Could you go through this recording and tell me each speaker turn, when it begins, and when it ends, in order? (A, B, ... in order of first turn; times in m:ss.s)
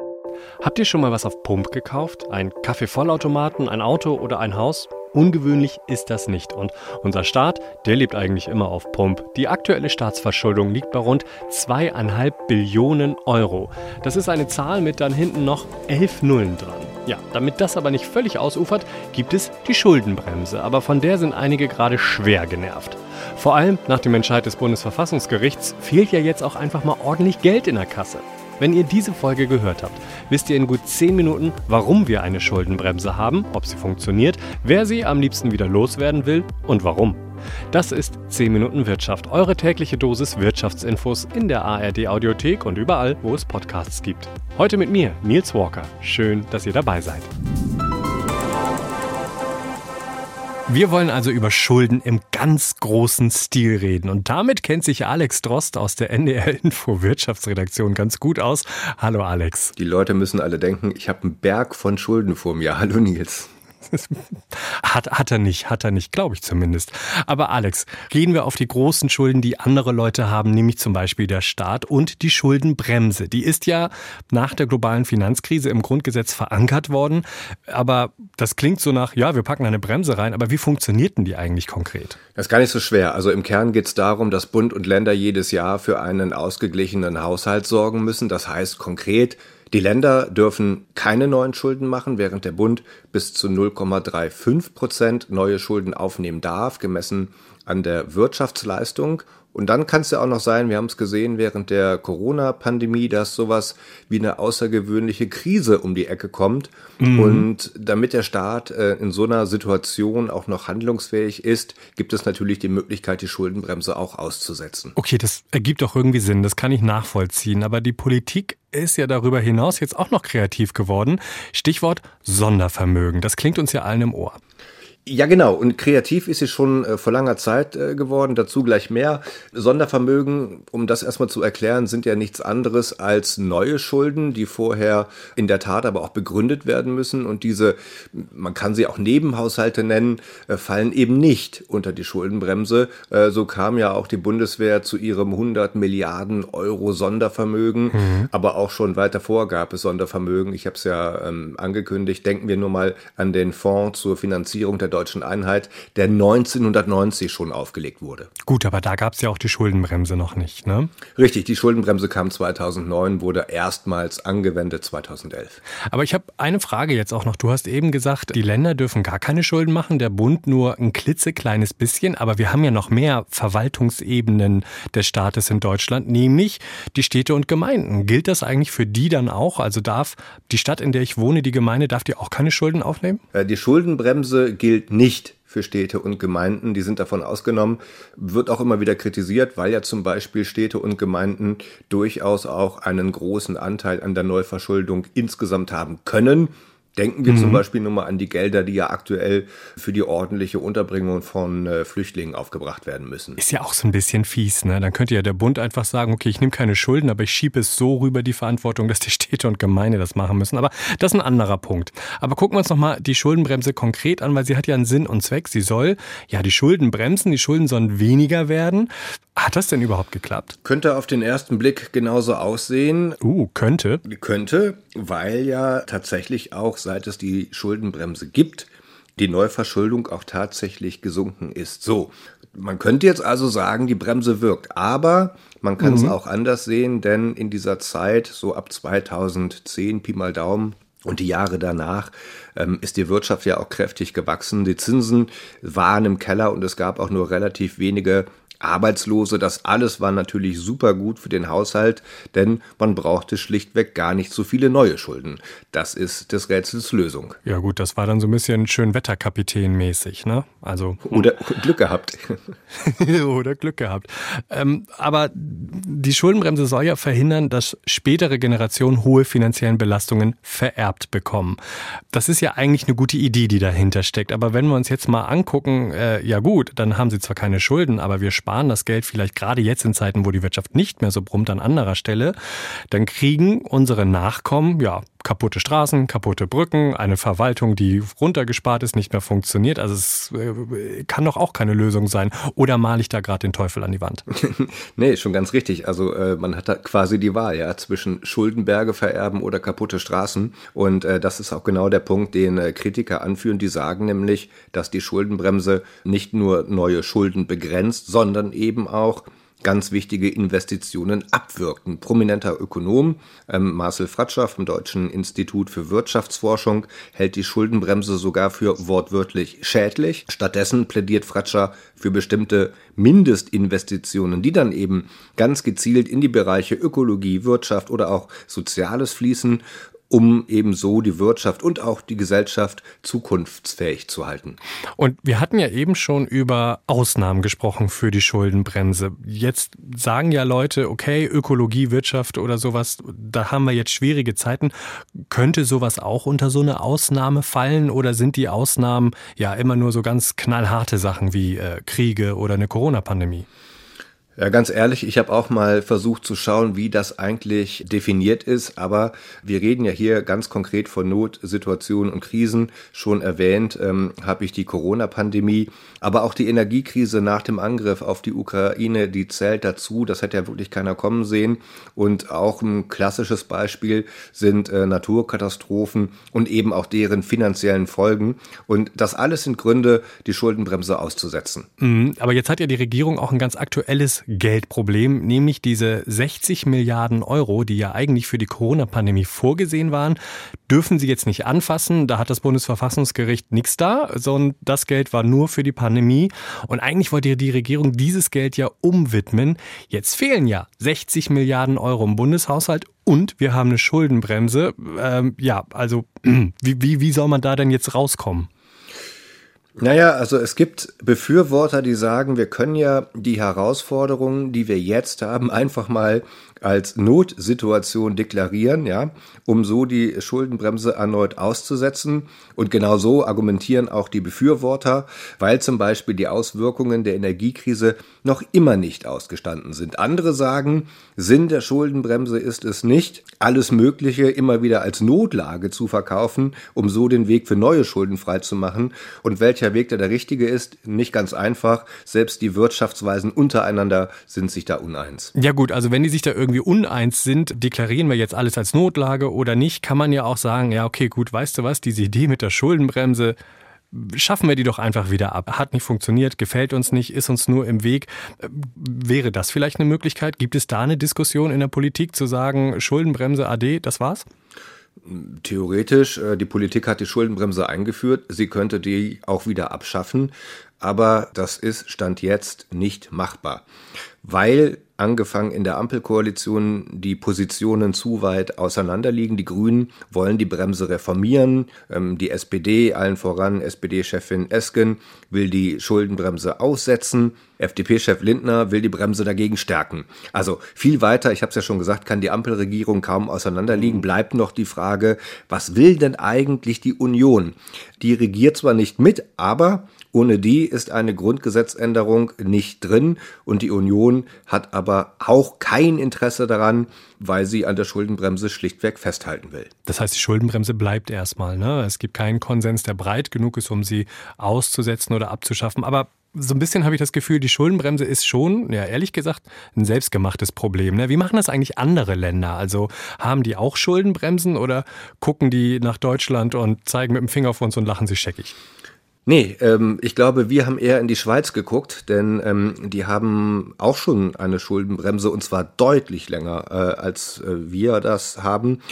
0:00.6-0:47.3 A
0:50.7-0:59.7 A
0:59.8-1:03.5 B
1:03.9-1:22.2 A
1:22.4-1:55.0 B
1:47.0-1:47.5 A
1:55.0-2:04.4 A
2:05.0-2:38.3 B
2:27.9-2:28.3 A
2:38.4-2:40.9 A
2:41.1-2:45.6 B
2:45.9-3:03.2 A
3:03.3-3:23.4 B
3:17.2-3:17.6 A
3:23.4-3:40.6 A
3:40.6-3:43.2 B
3:43.2-3:44.0 A
3:44.0-4:17.4 B
3:55.8-3:56.2 A
4:17.4-4:21.4 A
4:21.0-4:22.4 B
4:22.8-4:31.6 A
4:32.1-4:42.3 A
4:42.9-4:54.2 A
4:54.3-5:34.6 B
5:35.0-5:53.4 A
5:54.4-6:21.7 B
6:21.8-6:48.5 A
6:49.8-7:25.3 B
7:25.3-7:33.4 A
7:33.9-7:44.2 A
7:45.0-7:53.6 B
7:54.2-8:29.7 B
8:29.8-8:48.5 A
8:49.2-8:58.8 B